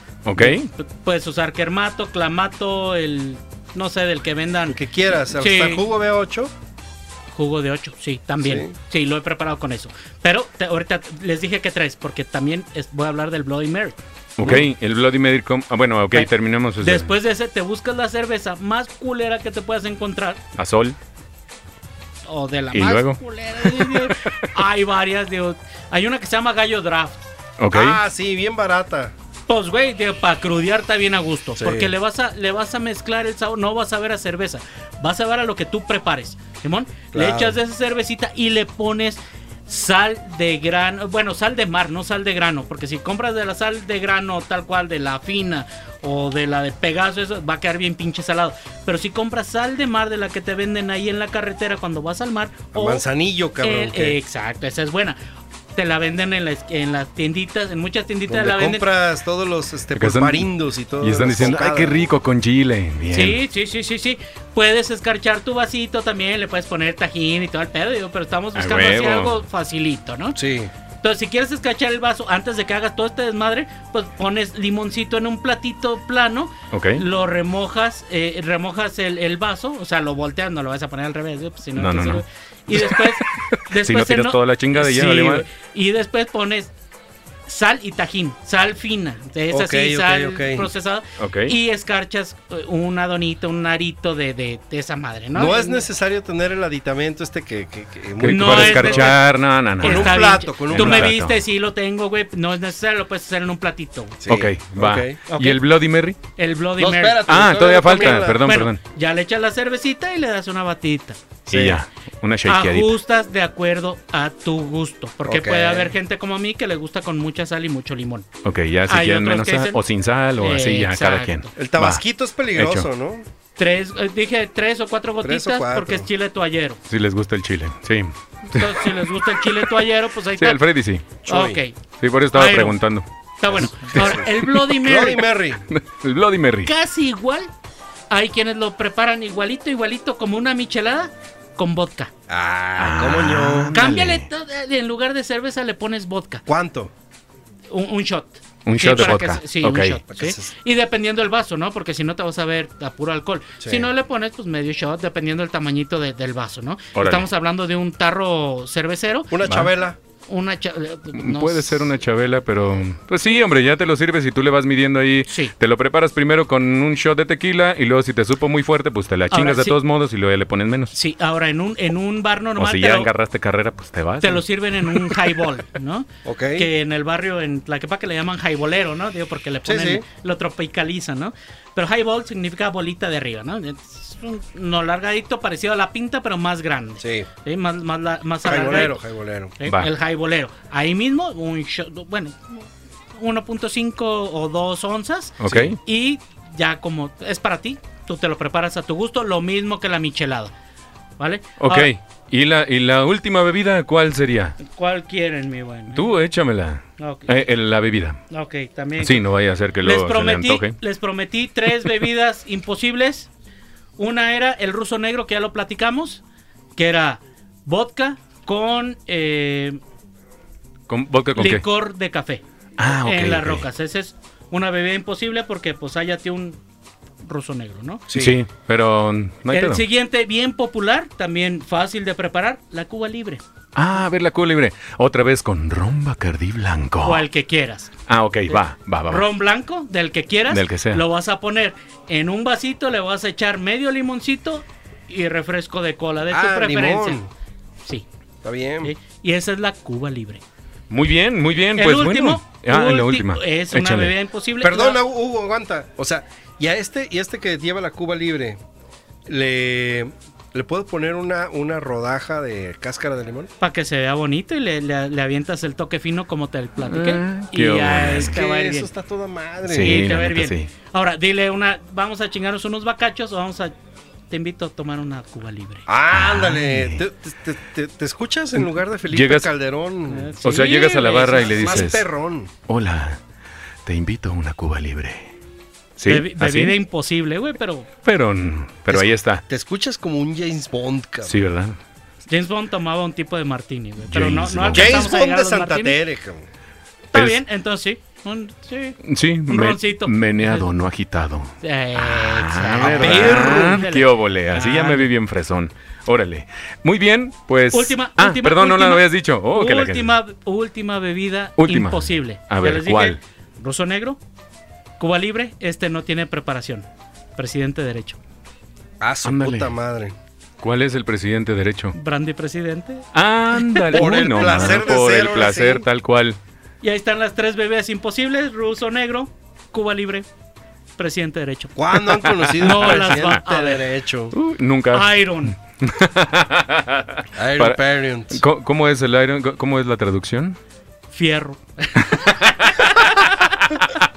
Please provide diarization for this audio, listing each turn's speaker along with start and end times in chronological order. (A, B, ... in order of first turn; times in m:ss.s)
0:00.2-0:00.7 A
0:00.4-0:04.8 B
0:04.7-0:06.5 C
0:05.3-0:05.8 B
0:07.3-0:14.0 B
0:08.4-0:08.7 C
0:14.4-0:17.1 A
0:14.4-0:14.7 C
0:16.8-0:20.4 B
0:20.6-0:21.0 A
0:22.3-0:27.2 B
0:22.7-0:24.5 A
0:27.6-0:28.0 A
0:27.7-0:29.1 C
0:29.5-0:53.0 B
0:31.6-0:31.9 C
0:37.1-0:37.6 C
0:52.7-0:54.2 C
0:53.6-0:55.2 B
0:55.8-0:58.8 B
0:58.3-1:02.1 C
1:00.0-1:00.5 A
1:01.0-1:03.4 A
1:03.1-1:10.4 B
1:08.6-1:09.4 A
1:10.4-1:10.7 C
1:11.0-1:26.7 B
1:16.7-1:17.0 A
1:21.8-1:25.5 A
1:27.5-1:35.8 B
1:29.5-1:30.7 C
1:31.2-1:31.6 A
1:35.3-1:39.2 C
1:38.2-1:41.4 A
1:38.3-1:39.2 B
1:39.8-1:41.1 C
1:39.8-1:44.2 B
1:44.2-1:45.2 C
1:44.3-1:46.2 A
1:45.3-1:45.6 B
1:46.4-1:51.2 B
1:46.8-1:48.4 C
1:47.2-1:48.8 A
1:51.5-1:51.8 C
1:51.5-1:53.0 A
1:52.4-1:58.3 B
1:55.2-1:56.0 C
1:58.4-2:02.0 A
1:58.9-1:59.8 B
2:00.4-2:01.5 B
2:01.6-2:03.3 C
2:02.6-2:02.9 A
2:03.6-2:06.8 B
2:05.2-2:06.1 C
2:06.9-2:09.7 A
2:08.5-2:10.6 B
2:10.4-2:11.1 A
2:11.2-2:11.6 C
2:11.3-2:11.7 B
2:12.0-2:13.1 A
2:12.3-2:12.8 B
2:13.4-2:15.2 B
2:13.8-2:15.1 A
2:14.0-2:14.3 C
2:14.8-2:15.6 C
2:15.7-2:16.7 A
2:16.6-2:17.5 B
2:18.1-2:22.1 B
2:22.3-2:23.8 C
2:22.8-2:24.3 A
2:23.7-2:26.4 B
2:26.5-2:26.9 C
2:27.7-2:39.4 B
2:28.7-2:30.0 A
2:30.1-2:30.5 C
2:33.6-2:33.9 C
2:37.0-2:37.3 A
2:39.3-2:40.0 C
2:39.4-2:39.7 A
2:40.3-2:41.9 B
2:41.2-2:50.9 A
2:45.3-2:45.5 B
2:49.3-2:49.8 B
2:50.9-2:53.1 B
2:52.6-2:55.3 A
2:54.2-3:09.0 B
2:56.2-2:56.7 C
2:59.6-3:00.0 C
3:07.0-3:07.3 C
3:08.4-3:09.5 C
3:09.6-3:20.5 B
3:15.4-3:15.8 A
3:15.5-3:15.7 C
3:21.2-3:21.9 B
3:21.6-3:24.6 A
3:24.6-3:26.2 B
3:25.9-3:28.2 A
3:27.0-3:27.4 B
3:28.3-3:29.2 B
3:29.0-3:30.8 A
3:29.8-3:33.3 B
3:34.0-3:36.2 B
3:36.8-3:39.8 B
3:40.9-3:41.6 A
3:41.4-3:46.6 B
3:42.8-3:43.7 A
3:47.2-3:48.0 B
3:48.1-3:48.4 C
3:48.1-3:49.8 A
3:49.5-3:53.4 B
3:53.8-3:57.3 A
3:57.0-3:57.9 B
3:58.1-3:59.3 A
3:58.5-4:07.2 B
4:00.5-4:01.0 A
4:06.3-4:07.3 C
4:08.4-4:08.9 C
4:08.8-4:10.4 B
4:10.9-4:14.1 A
4:11.8-4:15.0 B
4:14.6-4:18.6 C
4:19.3-4:23.5 C
4:23.6-4:28.9 B
4:26.9-4:28.3 A
4:28.0-4:30.1 C
4:29.7-4:30.7 A
4:29.8-4:33.7 B
4:34.3-4:35.9 B
4:35.9-4:40.4 C
4:36.1-4:37.0 A
4:39.1-4:39.5 A
4:40.1-4:42.0 B
4:40.4-4:42.1 A
4:41.4-4:42.5 C
4:42.7-4:43.2 A
4:43.9-4:45.3 A
4:46.0-4:46.8 A
4:46.1-4:47.9 B
4:48.0-4:49.4 A
4:48.9-4:51.4 C
4:51.2-4:51.8 A
4:52.3-4:56.0 B
4:54.1-4:55.1 A
4:54.7-4:56.5 C
4:57.1-5:00.7 B
4:59.0-5:10.2 A
5:01.6-5:05.1 B
5:02.8-5:03.8 C
5:07.7-5:14.2 B
5:11.6-5:13.2 A
5:15.0-5:18.2 B
5:19.0-5:20.2 C
5:19.2-5:19.7 A
5:20.6-5:22.0 A
5:21.9-5:24.8 B
5:23.1-5:26.4 A
5:23.9-5:25.8 C
5:26.8-5:30.3 B
5:31.0-5:31.8 B
5:31.8-5:34.4 C
5:32.1-5:33.4 A
5:32.6-5:33.9 B
5:34.3-5:35.2 A
5:34.9-5:35.6 B
5:35.8-5:40.6 A
5:37.4-5:38.4 C
5:41.1-5:43.9 B